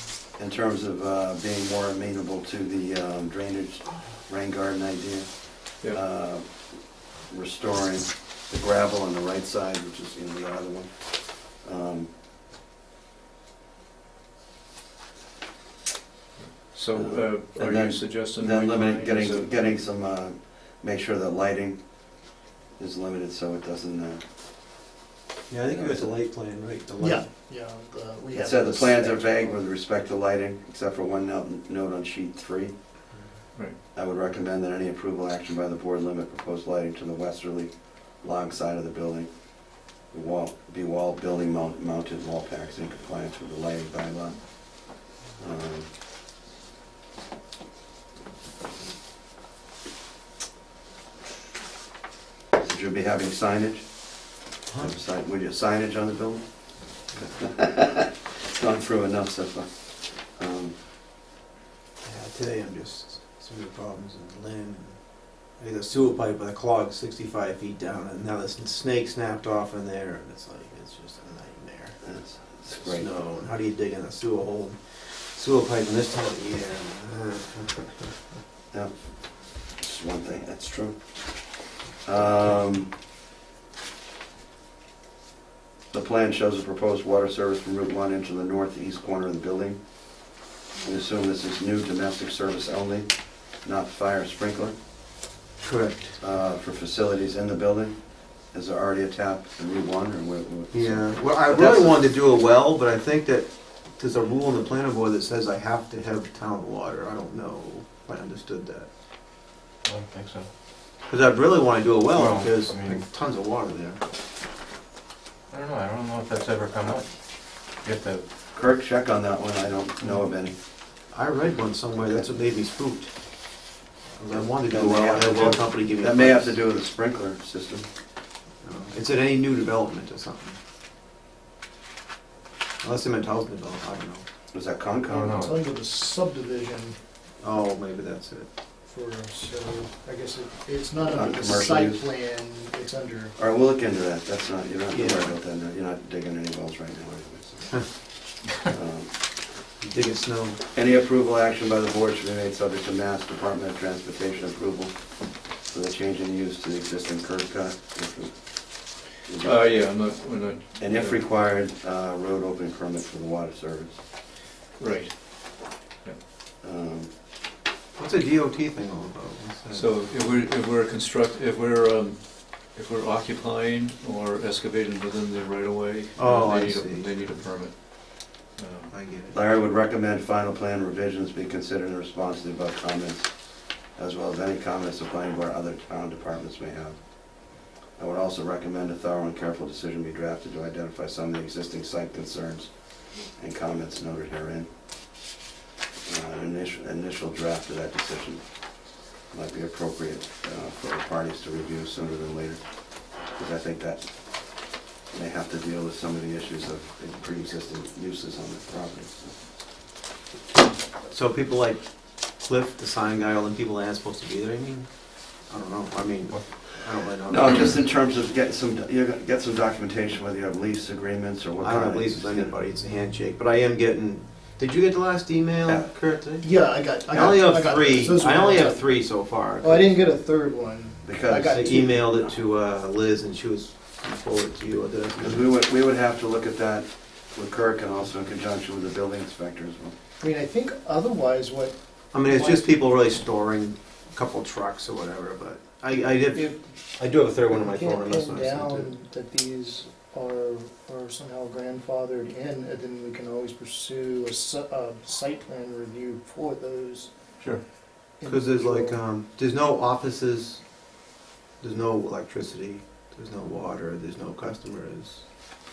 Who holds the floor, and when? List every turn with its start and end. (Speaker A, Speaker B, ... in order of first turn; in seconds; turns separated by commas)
Speaker A: 0.3-12.1, Speaker B: 16.4-19.8, Speaker A: 16.9-24.2, Speaker C: 25.5-27.2, Speaker A: 25.6-26.1, Speaker D: 27.0-29.6, Speaker A: 28.3-32.7, Speaker A: 33.9-45.9, Speaker A: 52.5-60.8, Speaker C: 62.0-72.0, Speaker A: 72.0-73.1, Speaker C: 72.7-78.1, Speaker A: 78.7-82.9, Speaker A: 85.9-89.8, Speaker A: 90.8-94.7, Speaker C: 95.6-96.2, Speaker A: 96.2-102.0, Speaker C: 100.7-108.9, Speaker E: 109.8-110.5, Speaker C: 111.1-114.0, Speaker E: 112.1-113.0, Speaker E: 115.5-118.2, Speaker A: 118.5-120.6, Speaker C: 121.1-123.1, Speaker C: 124.2-126.6, Speaker A: 124.6-127.9, Speaker C: 128.6-130.6, Speaker C: 132.8-134.2, Speaker A: 134.5-135.5, Speaker E: 135.1-135.5, Speaker D: 135.1-137.0, Speaker C: 137.4-138.5, Speaker D: 138.8-143.3, Speaker A: 141.0-142.1, Speaker A: 143.4-149.1, Speaker C: 144.9-145.3, Speaker C: 149.8-150.6, Speaker A: 150.7-159.9, Speaker B: 159.4-161.2, Speaker A: 160.8-164.0, Speaker B: 164.8-166.2, Speaker A: 166.6-167.1, Speaker C: 168.0-169.9, Speaker B: 169.7-178.9, Speaker C: 176.2-177.2, Speaker C: 178.9-179.3, Speaker A: 179.3-195.2, Speaker A: 196.0-209.3, Speaker C: 211.1-214.9, Speaker C: 215.5-217.8, Speaker A: 217.2-222.6, Speaker C: 221.6-226.5, Speaker A: 225.6-225.9, Speaker D: 226.4-228.8, Speaker C: 227.1-229.9, Speaker D: 229.6-231.9, Speaker A: 231.0-232.3, Speaker C: 231.5-235.4, Speaker A: 235.2-239.9, Speaker D: 240.2-242.7, Speaker C: 242.1-248.9, Speaker D: 247.5-257.1, Speaker D: 258.2-259.0, Speaker C: 258.2-260.6, Speaker C: 261.6-265.3